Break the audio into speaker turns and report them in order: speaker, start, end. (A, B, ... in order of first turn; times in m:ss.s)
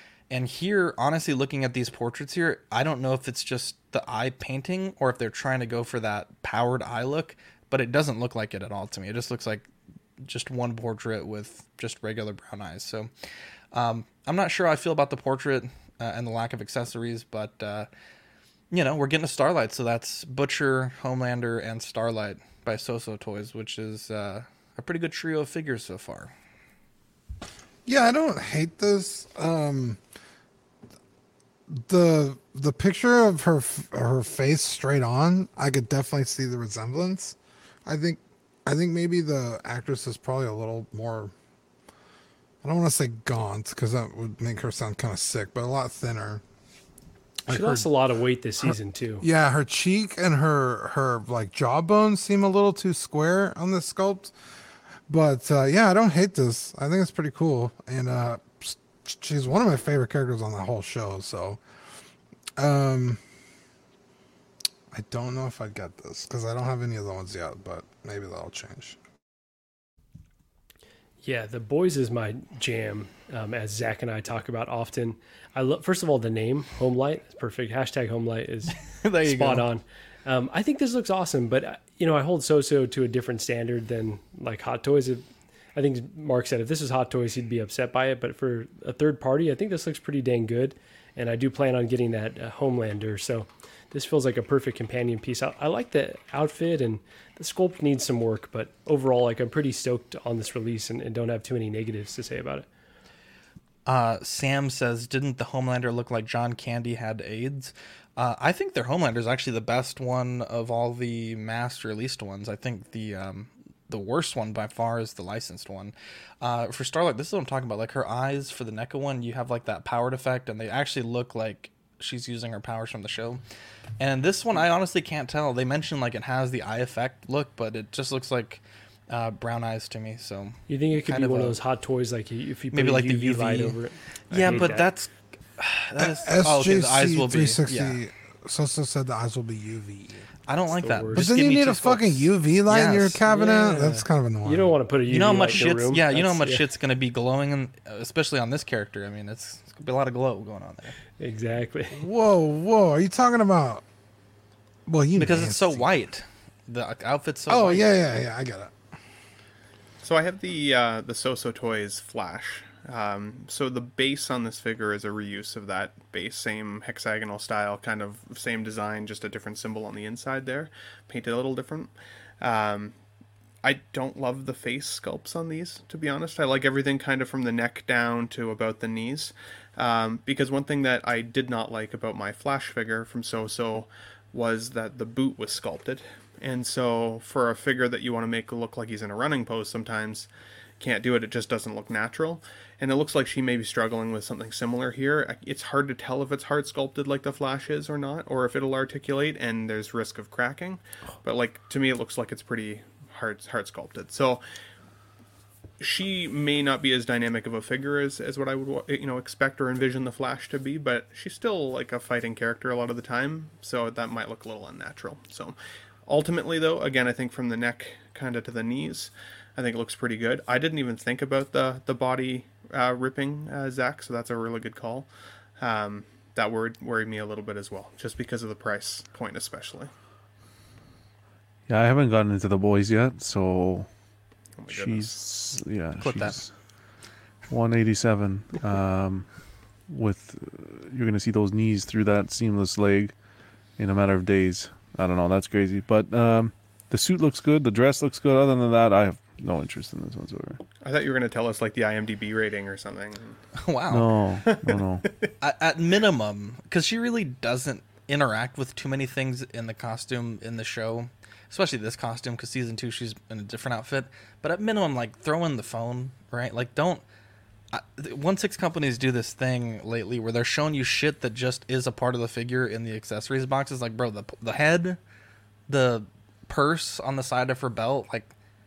0:00.3-0:09.7 A
0:10.2-0:13.1 A
0:13.7-0:17.9 A
0:18.7-0:26.3 A
0:27.9-0:30.0 B
0:31.7-0:41.3 B
0:42.6-0:46.4 B
0:47.5-0:47.9 B
0:47.5-0:49.2 C
0:48.6-0:54.3 B
0:55.1-1:01.6 B
1:02.6-1:03.2 B
1:04.9-1:09.0 B
1:11.2-1:25.2 C
1:19.0-1:19.7 A
1:25.8-1:42.7 C
1:43.9-2:03.4 A
2:04.0-2:11.6 A
2:10.7-2:14.9 C
2:12.7-2:13.8 A
2:14.3-2:18.0 A
2:16.0-2:20.2 B
2:20.5-2:23.2 A
2:20.8-2:21.3 C
2:21.1-2:24.8 B
2:23.3-2:26.7 C
2:25.1-2:31.0 A
2:31.2-2:32.0 C
2:31.9-2:33.8 B
2:34.9-2:35.9 B
2:35.2-2:37.9 A
2:37.5-2:38.7 B
2:40.0-2:53.0 D
2:53.6-3:10.3 D
3:10.8-3:24.4 D
3:25.8-3:45.1 D
3:45.6-3:49.9 D
3:51.7-3:53.9 E
3:54.6-3:55.2 D
3:54.7-3:56.5 E
3:56.0-3:56.4 A
3:57.5-3:59.3 E
3:59.9-4:03.1 E
4:03.8-4:10.6 E
4:10.8-4:13.4 D
4:13.6-4:14.1 A
4:13.9-4:15.0 E
4:14.4-4:14.9 D
4:15.4-4:27.0 A
4:27.7-4:35.0 A
4:35.7-4:38.3 A